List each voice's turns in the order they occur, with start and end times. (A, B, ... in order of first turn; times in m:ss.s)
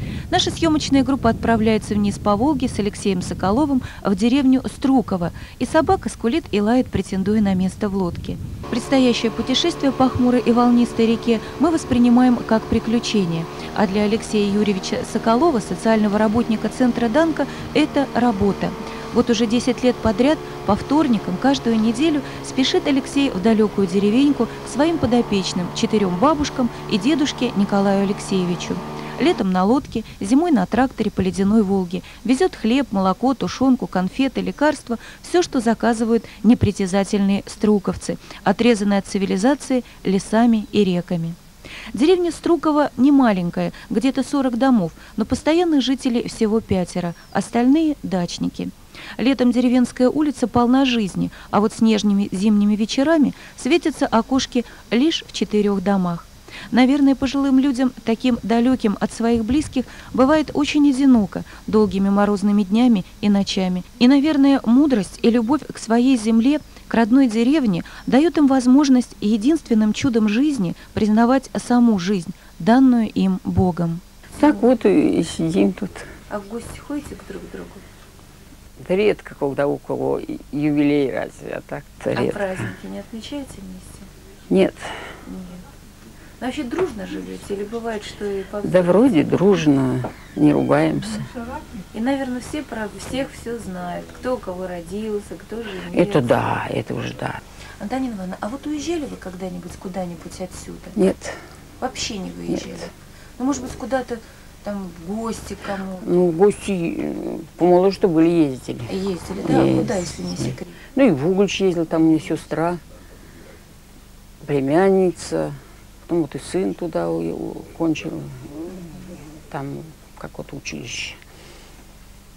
0:00.3-0:41.4 A
0:41.9-1:14.7 A
1:14.4-1:16.1 B
1:16.3-1:17.8 A
1:18.8-1:22.7 B
1:22.1-1:24.1 A
1:24.5-1:24.8 B
1:25.2-1:25.6 A
1:26.4-1:29.2 A
1:28.6-1:31.3 B
1:31.9-1:36.4 A
1:35.9-1:37.4 B
1:37.8-1:41.0 A
1:41.0-1:41.4 B
1:41.8-1:46.1 A
1:46.0-1:48.9 B
1:48.9-1:50.8 A
1:49.4-1:52.8 B
1:54.4-1:55.5 B
1:56.0-1:58.6 B
1:59.5-2:01.2 B